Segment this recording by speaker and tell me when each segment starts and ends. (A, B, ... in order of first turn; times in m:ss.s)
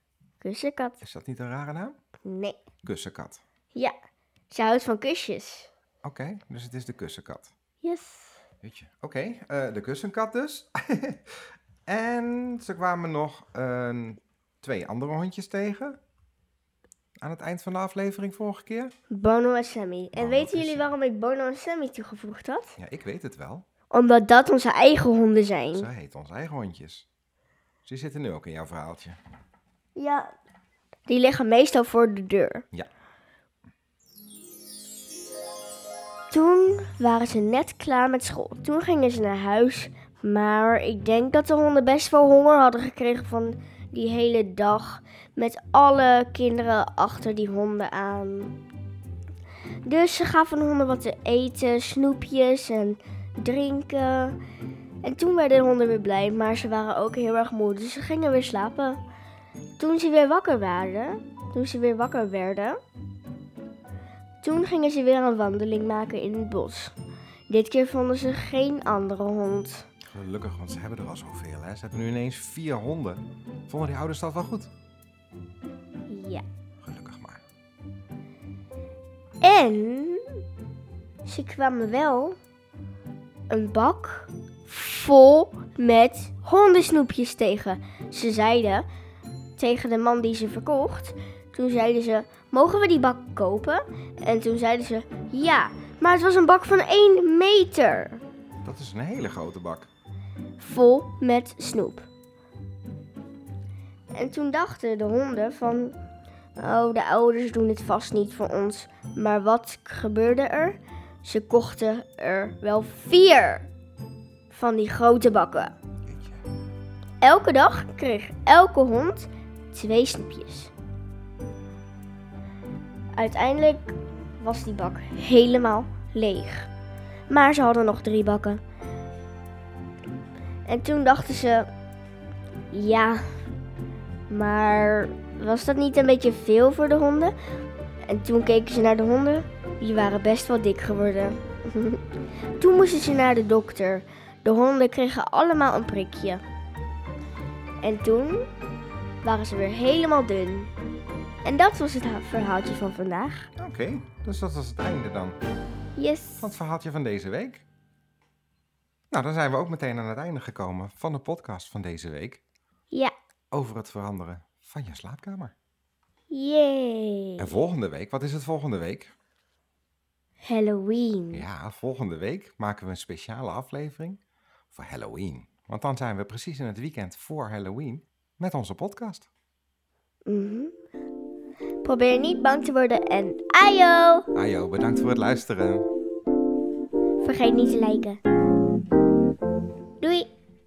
0:00.4-0:01.0 A
0:01.0-0:02.0 B
0:02.2-0:02.6 A
0:02.8-0:03.4 B
0:04.5-0:05.7 A
0:06.0-0:07.5 B
0:07.8-0:08.4 A
0:08.6-0:11.4 B
0:11.9-0:16.0 B
0:17.2-0:18.9 B
0:19.1-0:22.8 A
0:20.1-0:20.9 B
0:22.8-0:23.6 B
0:23.9-0:25.9 A
0:25.7-0:27.0 B
0:27.8-0:29.2 B
0:30.0-0:30.3 A
0:31.1-0:32.6 A
0:36.3-0:48.6 A
0:49.8-0:54.4 A
0:55.0-0:59.0 A
0:59.8-1:02.8 A
1:04.4-1:06.9 A
1:07.5-1:09.9 A
1:10.1-1:14.7 B
1:16.1-1:16.4 A
1:16.8-1:17.4 B
1:19.4-1:20.2 A
1:21.2-1:22.4 A
1:23.5-1:28.8 A
1:29.6-1:38.2 A
1:38.6-1:39.9 B
1:40.6-1:42.1 A
1:44.1-1:46.0 A
1:46.6-1:53.7 A
1:54.5-1:55.7 A
1:56.1-1:56.4 B
1:57.2-2:00.7 A
2:03.2-2:06.7 A
2:07.3-2:08.6 A
2:10.6-2:11.7 A
2:12.7-2:13.3 A
2:14.3-2:17.3 A
2:18.0-2:22.0 A
2:22.6-2:26.4 A
2:27.8-2:28.5 A
2:29.2-2:30.7 A
2:31.4-2:33.5 A
2:33.6-2:35.4 B
2:36.0-2:36.5 A
2:36.4-2:37.6 B
2:39.1-2:42.4 B
2:43.5-2:45.5 B
2:46.3-2:47.6 A
2:47.4-2:49.1 B
2:50.4-2:51.5 A
2:51.3-2:54.2 B
2:54.7-2:59.3 B
3:00.2-3:00.7 A
3:01.8-3:04.3 A
3:04.3-3:05.9 B
3:07.2-3:08.2 A
3:10.0-3:10.3 A